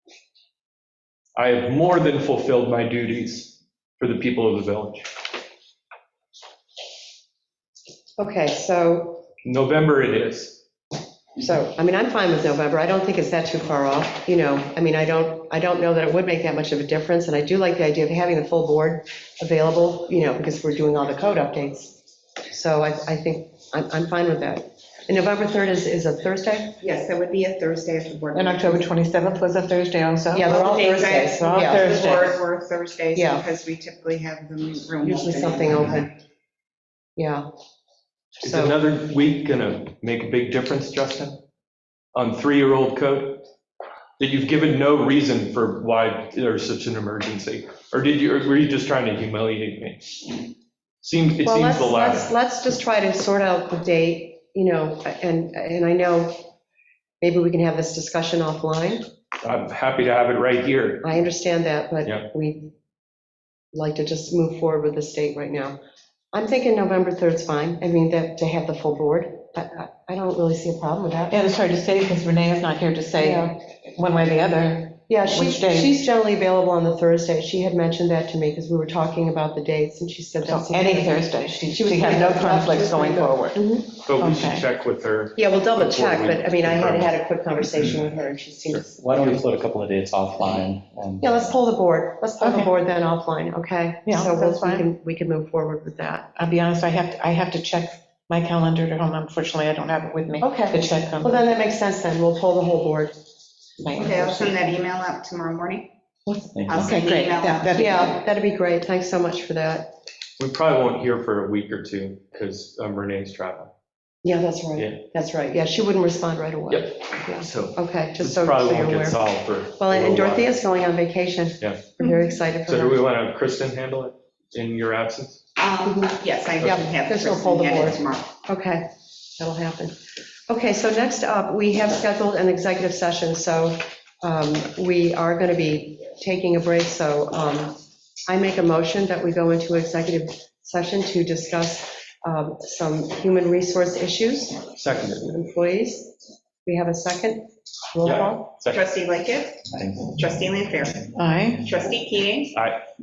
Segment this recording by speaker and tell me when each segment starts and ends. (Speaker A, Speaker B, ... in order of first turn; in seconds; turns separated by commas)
Speaker A: 1.4-5.1, Speaker B: 8.2-9.2, Speaker A: 9.4-10.6, Speaker B: 11.4-22.0, Speaker B: 22.5-26.8, Speaker C: 26.8-28.9, Speaker D: 28.3-32.3, Speaker B: 30.3-31.9, Speaker C: 30.5-36.0, Speaker B: 33.1-33.4, Speaker B: 35.0-36.1, Speaker B: 37.2-37.5, Speaker B: 38.4-38.7, Speaker A: 38.4-41.4, Speaker A: 42.1-43.5, Speaker A: 44.2-50.4, Speaker A: 51.0-52.3, Speaker B: 51.4-56.5, Speaker B: 57.2-59.1, Speaker A: 59.4-61.1, Speaker B: 61.0-62.7, Speaker B: 63.7-65.8, Speaker B: 66.3-71.4, Speaker D: 71.3-75.9, Speaker B: 73.2-73.5, Speaker B: 75.1-83.9, Speaker D: 80.4-83.6, Speaker A: 84.0-87.1, Speaker D: 84.2-84.7, Speaker B: 85.3-89.0, Speaker E: 88.7-91.5, Speaker B: 91.2-96.3, Speaker D: 92.4-92.7, Speaker D: 94.0-94.9, Speaker D: 96.3-101.4, Speaker B: 100.4-103.1, Speaker D: 103.8-104.5, Speaker C: 103.9-105.9, Speaker D: 106.3-108.2, Speaker E: 106.5-107.0, Speaker C: 106.7-107.9, Speaker B: 107.7-109.9, Speaker A: 110.4-113.7, Speaker B: 114.2-119.2, Speaker A: 116.7-120.5, Speaker B: 119.7-123.0, Speaker A: 121.6-122.0, Speaker A: 122.6-125.4, Speaker C: 125.6-128.3, Speaker B: 126.6-129.9, Speaker B: 130.5-144.7, Speaker A: 144.7-145.3, Speaker B: 145.2-148.5, Speaker A: 148.0-148.8, Speaker C: 148.7-152.6, Speaker E: 149.7-150.1, Speaker D: 151.2-151.6, Speaker A: 152.5-152.8